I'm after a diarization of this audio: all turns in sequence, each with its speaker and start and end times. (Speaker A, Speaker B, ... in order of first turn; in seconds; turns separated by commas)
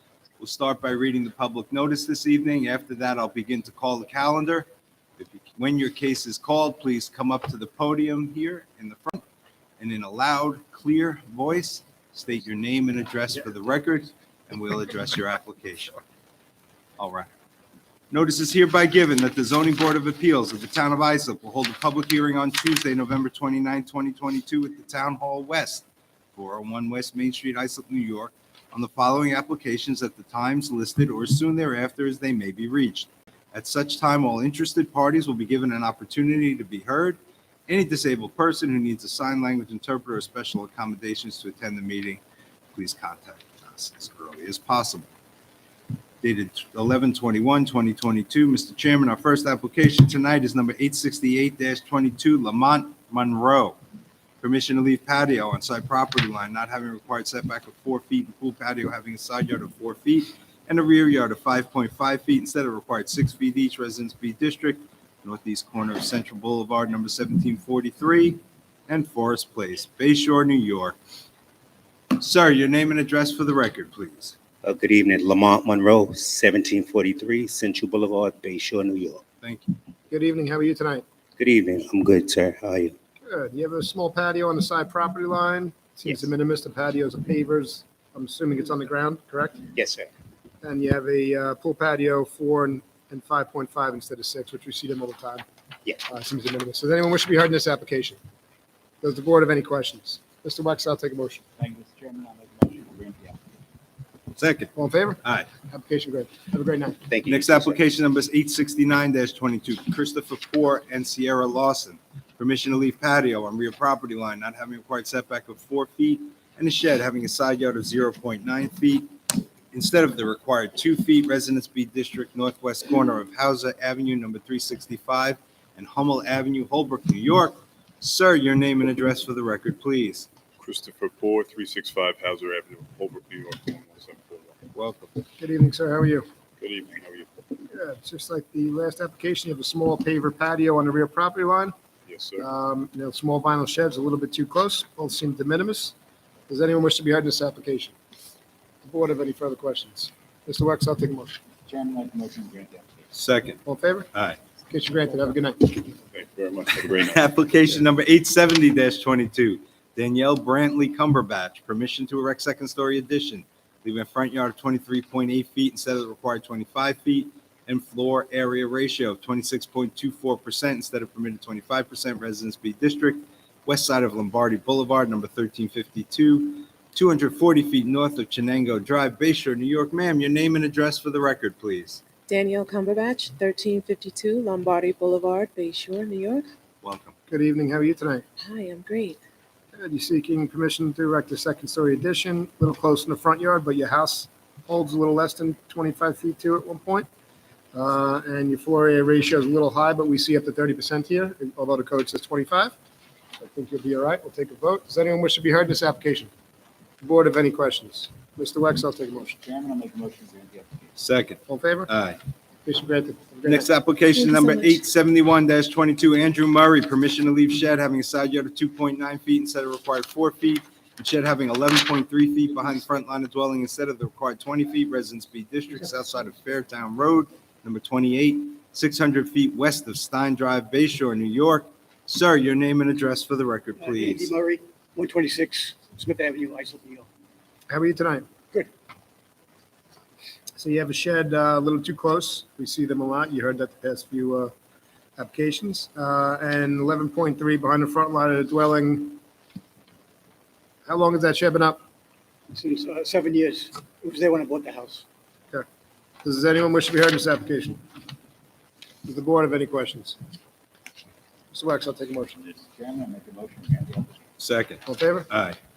Speaker A: 0.4-4.7, Speaker A: 5.2-9.2, Speaker A: 9.8-16.0, Speaker A: 17.0-17.3, Speaker A: 18.1-25.8, Speaker A: 26.3-42.2, Speaker A: 42.7-45.1, Speaker A: 46.2-53.8, Speaker A: 54.4-71.0, Speaker A: 72.1-74.3, Speaker B: 74.6-79.2, Speaker A: 79.4-79.7, Speaker C: 80.1-81.0, Speaker B: 81.4-82.9, Speaker C: 83.3-89.7, Speaker B: 89.7-90.1, Speaker C: 90.6-95.4, Speaker C: 96.1-98.2, Speaker C: 99.0-101.4, Speaker D: 101.6-103.4, Speaker A: 104.4-104.7, Speaker C: 104.8-107.0, Speaker B: 107.1-107.8, Speaker A: 107.2-119.1, Speaker A: 119.7-130.3, Speaker E: 130.6-134.6, Speaker A: 134.7-135.2, Speaker C: 135.4-136.2, Speaker E: 136.6-137.3, Speaker C: 137.7-141.7, Speaker E: 142.1-142.5, Speaker C: 142.4-145.9, Speaker C: 146.5-147.9, Speaker C: 148.8-151.4, Speaker D: 151.7-153.0, Speaker A: 153.1-153.6, Speaker C: 153.6-154.1, Speaker C: 154.7-155.9, Speaker E: 156.1-157.2, Speaker A: 156.8-182.0, Speaker F: 182.3-186.4, Speaker A: 186.8-187.1, Speaker C: 187.3-188.2, Speaker F: 188.4-189.2, Speaker C: 189.7-197.1, Speaker C: 197.7-202.7, Speaker C: 203.4-206.3, Speaker C: 207.0-209.3, Speaker D: 209.2-211.0, Speaker A: 211.0-212.2, Speaker C: 211.5-211.9, Speaker C: 212.6-213.7, Speaker A: 213.4-234.3, Speaker G: 233.8-237.1, Speaker C: 237.7-238.3, Speaker C: 240.6-244.5, Speaker C: 245.2-249.2, Speaker C: 250.8-251.8, Speaker G: 252.5-255.0, Speaker C: 256.2-257.8, Speaker C: 259.0-260.2, Speaker C: 261.5-262.4, Speaker D: 262.4-264.2, Speaker A: 264.4-265.6, Speaker C: 264.9-265.3